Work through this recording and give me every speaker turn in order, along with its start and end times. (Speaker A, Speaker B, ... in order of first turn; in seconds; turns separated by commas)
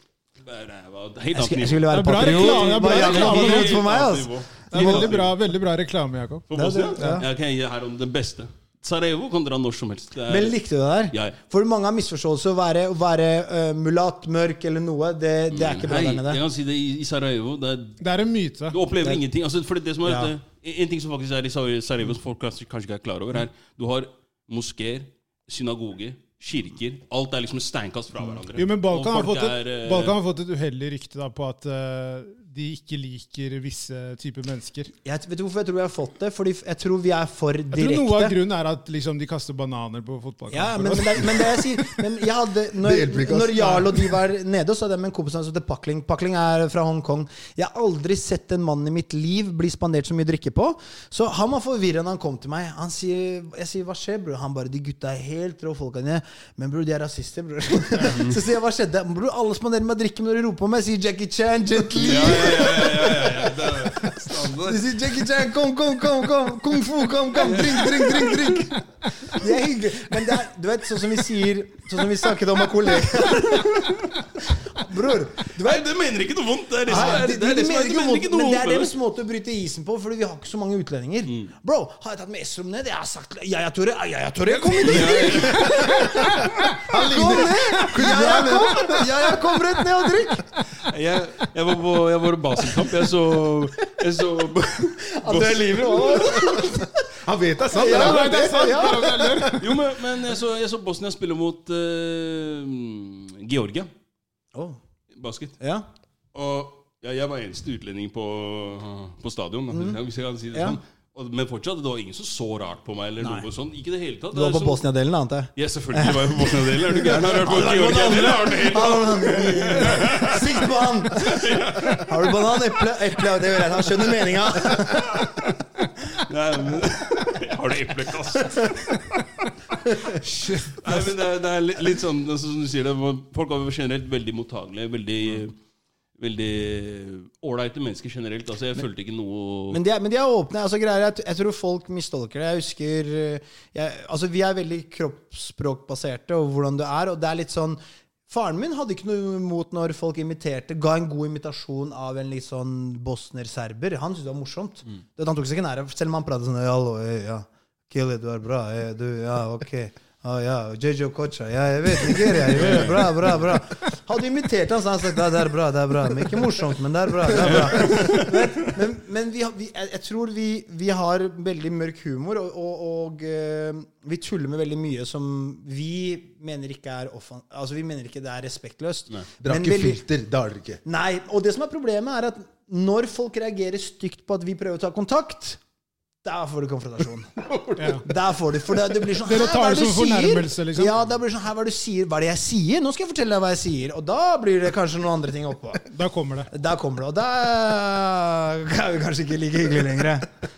Speaker A: 0.4-5.4, Speaker B: 1.3-5.1, Speaker C: 1.9-3.8, Speaker C: 4.7-7.2, Speaker A: 6.5-10.6, Speaker B: 6.5-7.3, Speaker B: 10.3-16.4, Speaker A: 11.1-11.4, Speaker A: 15.5-18.0, Speaker C: 18.0-18.8, Speaker A: 18.7-30.2, Speaker B: 20.1-20.3, Speaker C: 28.6-34.9, Speaker B: 35.0-38.4, Speaker C: 37.7-41.3, Speaker B: 40.5-74.0, Speaker D: 41.0-41.2, Speaker D: 42.8-44.0, Speaker A: 58.1-58.4, Speaker A: 62.0-64.9, Speaker A: 67.4-68.5, Speaker A: 73.2-74.2, Speaker B: 74.5-75.9, Speaker A: 75.5-79.0, Speaker B: 76.9-90.5, Speaker C: 76.9-77.2, Speaker A: 81.3-81.5, Speaker A: 84.8-85.8, Speaker D: 85.6-89.6, Speaker A: 90.7-96.6, Speaker B: 95.1-97.1, Speaker D: 97.2-99.9, Speaker B: 97.7-99.4, Speaker C: 97.8-99.7, Speaker A: 99.6-103.9, Speaker B: 104.5-104.8, Speaker A: 105.1-105.6, Speaker B: 105.6-105.9, Speaker A: 106.3-114.8, Speaker B: 109.7-110.0, Speaker B: 110.5-110.8, Speaker B: 113.2-113.5, Speaker B: 114.3-125.2, Speaker A: 115.6-122.4, Speaker A: 124.7-125.4, Speaker A: 126.0-129.3, Speaker C: 130.2-131.0, Speaker A: 130.5-135.6, Speaker A: 136.2-139.8, Speaker B: 139.7-180.0, Speaker A: 162.5-163.0, Speaker C: 162.6-163.1, Speaker A: 167.3-168.7, Speaker D: 179.4-180.8, Speaker B: 180.8-185.6, Speaker B: 186.2-187.4, Speaker D: 187.5-188.0, Speaker C: 187.8-188.1, Speaker B: 188.0-195.8, Speaker C: 189.2-191.0, Speaker C: 195.9-196.5, Speaker B: 196.5-200.3